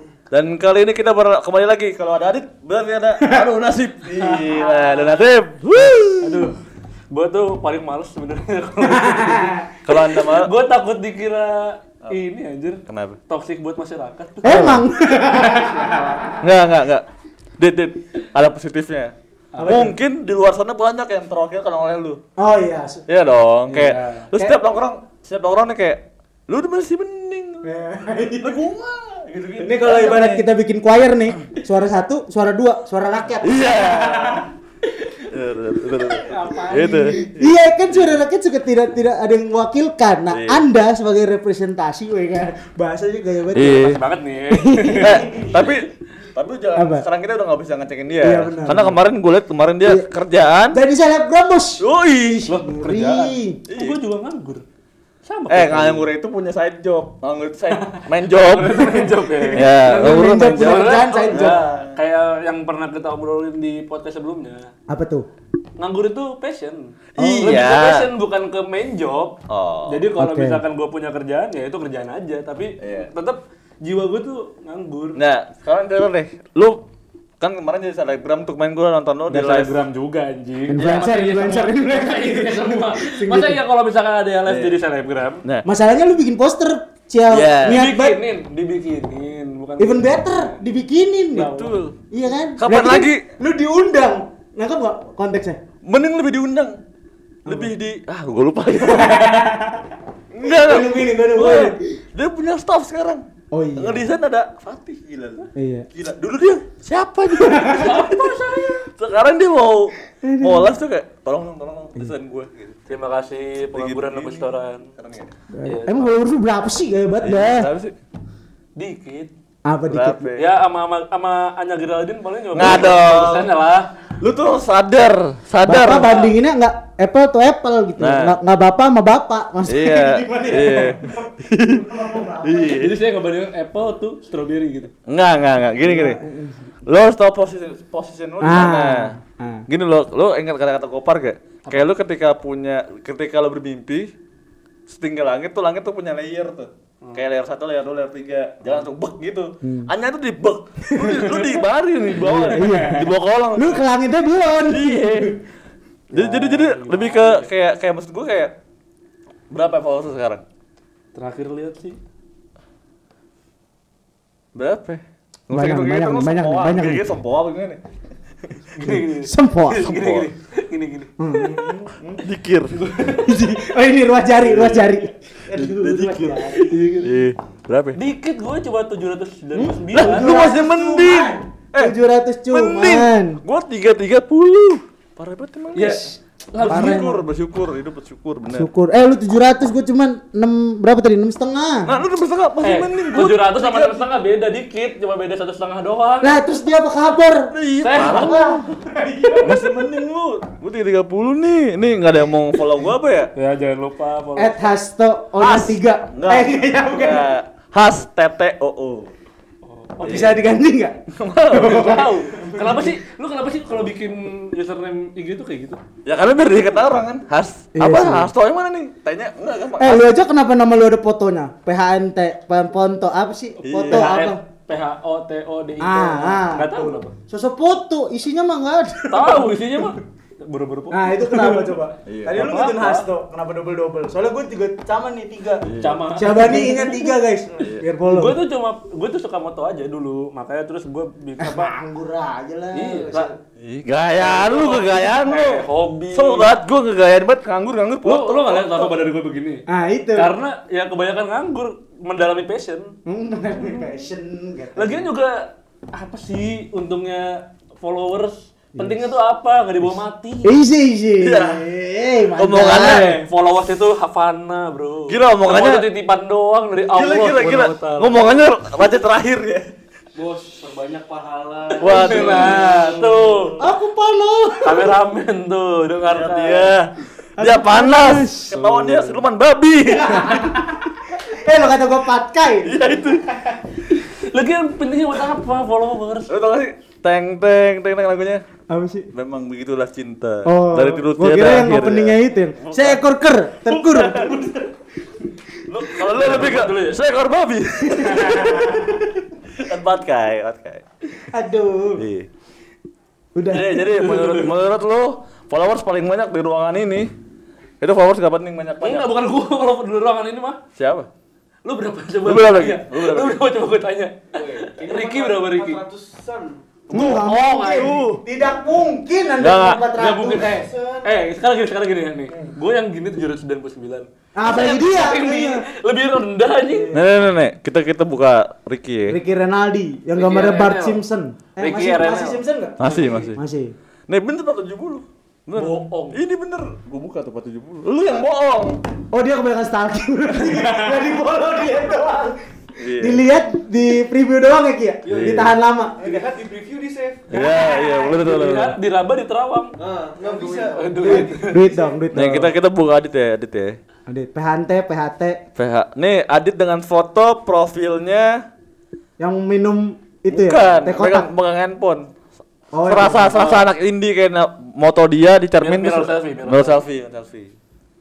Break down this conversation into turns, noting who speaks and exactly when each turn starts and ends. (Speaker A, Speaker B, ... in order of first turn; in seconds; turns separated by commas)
Speaker A: 0.3-6.5, Speaker B: 3.2-3.5, Speaker C: 4.3-5.2, Speaker C: 6.2-6.6, Speaker C: 7.1-16.3, Speaker B: 8.8-9.7, Speaker A: 9.8-10.5, Speaker A: 12.9-13.2, Speaker B: 14.4-16.4, Speaker A: 14.4-14.8, Speaker A: 16.4-17.1, Speaker A: 17.6-19.1, Speaker C: 19.5-19.9, Speaker B: 19.6-20.0, Speaker A: 19.6-22.2, Speaker B: 22.4-23.0, Speaker A: 23.1-27.7, Speaker C: 23.7-24.2, Speaker B: 24.3-24.6, Speaker B: 27.6-28.6, Speaker A: 28.4-30.4, Speaker B: 29.6-34.5, Speaker A: 33.4-34.5, Speaker A: 35.3-38.2, Speaker C: 36.2-37.2, Speaker B: 36.3-45.5, Speaker A: 40.3-40.6, Speaker A: 43.5-44.0, Speaker C: 43.7-45.4, Speaker A: 45.0-50.8, Speaker B: 46.7-47.1, Speaker B: 48.2-49.0, Speaker B: 49.8-50.1, Speaker B: 50.7-51.8, Speaker A: 51.8-52.6, Speaker C: 52.5-54.6, Speaker B: 52.5-53.6, Speaker A: 53.7-54.0, Speaker C: 55.2-56.1, Speaker A: 55.5-59.0, Speaker C: 58.3-64.7, Speaker B: 58.8-61.6, Speaker A: 59.5-62.0, Speaker B: 64.9-65.2, Speaker C: 65.8-69.3, Speaker A: 67.2-68.1, Speaker A: 69.5-70.1, Speaker C: 69.9-75.2, Speaker B: 70.2-70.6, Speaker A: 72.8-73.1, Speaker A: 75.1-76.8, Speaker A: 77.4-79.7, Speaker C: 79.3-85.4, Speaker B: 80.7-83.6, Speaker A: 80.8-81.1, Speaker A: 84.5-84.8, Speaker B: 85.6-88.2, Speaker A: 87.3-87.8, Speaker C: 87.7-90.6, Speaker B: 89.8-95.6, Speaker A: 91.4-92.0, Speaker C: 91.4-91.7, Speaker A: 92.6-93.2, Speaker A: 95.8-96.8, Speaker A: 97.5-99.5, Speaker B: 97.5-97.7, Speaker B: 98.8-99.9, Speaker A: 100.3-103.2, Speaker B: 100.4-101.8, Speaker B: 103.5-104.1, Speaker A: 103.8-108.3, Speaker B: 105.5-105.9, Speaker B: 107.4-107.9, Speaker C: 107.7-108.8, Speaker A: 109.0-112.9, Speaker B: 110.2-110.7, Speaker C: 112.9-114.8, Speaker A: 113.6-115.3, Speaker B: 115.5-117.7, Speaker C: 115.6-116.1, Speaker A: 117.2-117.9, Speaker C: 118.8-119.3, Speaker B: 119.7-120.3, Speaker A: 119.9-120.5, Speaker C: 120.4-123.9, Speaker A: 122.5-123.5, Speaker A: 124.2-126.2, Speaker B: 125.6-132.8, Speaker C: 126.0-126.3, Speaker A: 128.0-128.4, Speaker A: 129.6-131.9, Speaker A: 132.4-132.9, Speaker C: 132.7-134.9, Speaker A: 135.1-136.2, Speaker B: 135.8-136.6, Speaker A: 136.8-139.1, Speaker B: 138.4-139.6, Speaker A: 139.7-144.1, Speaker A: 144.9-153.8, Speaker B: 149.6-149.9, Speaker B: 150.8-151.5, Speaker B: 152.2-155.4, Speaker C: 152.2-153.0, Speaker A: 154.6-155.3, Speaker A: 156.1-158.5, Speaker C: 156.2-157.5, Speaker A: 159.5-160.4, Speaker C: 161.1-162.0, Speaker A: 164.5-167.8, Speaker B: 165.5-167.1, Speaker C: 168.7-171.8, Speaker B: 168.8-169.8, Speaker A: 169.8-170.3, Speaker B: 171.2-172.2, Speaker A: 172.2-172.7, Speaker C: 172.7-173.4, Speaker B: 173.1-177.1, Speaker A: 174.4-175.0, Speaker A: 175.5-178.0, Speaker C: 177.9-180.4, Speaker B: 179.5-183.4, Speaker A: 179.9-181.9, Speaker A: 182.5-186.0, Speaker C: 185.7-187.0, Speaker A: 186.6-188.7, Speaker B: 186.7-187.2, Speaker B: 188.5-191.9, Speaker A: 191.8-194.1, Speaker C: 192.6-196.3, Speaker B: 196.2-197.4, Speaker A: 197.5-198.7, Speaker C: 197.8-198.4, Speaker B: 198.0-199.9, Speaker A: 199.4-203.3, Speaker C: 203.3-204.7, Speaker B: 204.3-207.3, Speaker A: 205.4-209.1, Speaker C: 209.6-210.4, Speaker A: 210.0-210.4, Speaker B: 210.0-211.0, Speaker A: 211.1-212.1, Speaker B: 211.5-212.9, Speaker C: 211.6-215.8, Speaker A: 216.0-220.0, Speaker B: 217.8-218.3, Speaker B: 219.8-224.4, Speaker A: 223.6-224.1, Speaker C: 223.9-227.1, Speaker B: 225.8-229.9, Speaker C: 229.1-231.8, Speaker B: 230.9-238.4, Speaker A: 232.1-232.5, Speaker C: 232.3-233.1, Speaker A: 235.6-236.0, Speaker C: 235.8-237.2, Speaker C: 238.1-241.7, Speaker B: 241.4-243.4, Speaker C: 242.7-243.3, Speaker A: 243.6-248.9, Speaker C: 244.2-246.5, Speaker C: 248.0-249.6, Speaker B: 249.7-250.3, Speaker C: 250.1-252.9, Speaker B: 253.1-255.1, Speaker C: 253.6-253.8, Speaker C: 254.7-260.6, Speaker B: 258.8-259.1, Speaker B: 260.4-263.2, Speaker A: 261.2-261.6, Speaker A: 262.3-263.2, Speaker C: 262.6-268.4, Speaker A: 265.1-265.9, Speaker A: 266.9-269.6, Speaker C: 270.2-273.6, Speaker A: 271.8-273.7, Speaker B: 273.6-275.0, Speaker C: 274.6-276.7, Speaker A: 276.1-280.6, Speaker B: 277.4-279.2, Speaker B: 279.9-282.8, Speaker A: 282.6-283.6, Speaker C: 283.9-286.3, Speaker A: 286.3-288.4, Speaker B: 288.7-289.1, Speaker A: 289.1-293.0, Speaker B: 290.4-294.4, Speaker A: 293.7-294.4, Speaker C: 294.2-294.6, Speaker A: 295.7-300.8, Speaker C: 296.1-297.0, Speaker B: 297.9-298.9, Speaker B: 301.3-302.0, Speaker A: 302.0-302.3, Speaker B: 303.3-303.9, Speaker A: 303.5-307.1, Speaker C: 303.9-304.5, Speaker A: 307.8-309.1, Speaker C: 308.8-310.6, Speaker A: 310.8-311.1, Speaker C: 311.6-315.8, Speaker A: 312.2-313.4, Speaker D: 314.3-316.6, Speaker C: 316.9-318.1, Speaker B: 316.9-320.8, Speaker A: 317.7-318.2, Speaker A: 319.4-319.9, Speaker C: 319.9-326.9, Speaker B: 324.4-325.6, Speaker B: 326.7-327.1, Speaker A: 326.9-329.2, Speaker B: 329.1-333.7, Speaker C: 330.1-331.0, Speaker C: 331.6-333.2, Speaker A: 332.8-333.4, Speaker A: 334.1-338.8, Speaker C: 335.6-336.2, Speaker B: 339.1-342.4, Speaker A: 342.8-343.2, Speaker B: 342.9-346.3, Speaker D: 345.1-345.4, Speaker A: 345.1-345.6, Speaker D: 346.0-347.4, Speaker A: 347.3-348.8, Speaker C: 347.3-349.7, Speaker D: 349.8-352.0, Speaker B: 350.2-352.5, Speaker C: 350.7-351.7, Speaker A: 352.1-353.8, Speaker B: 354.1-355.4, Speaker A: 355.6-358.4, Speaker B: 359.2-361.3, Speaker A: 360.3-362.1, Speaker B: 362.7-363.5, Speaker A: 362.8-367.5, Speaker C: 363.3-363.6, Speaker C: 365.6-366.8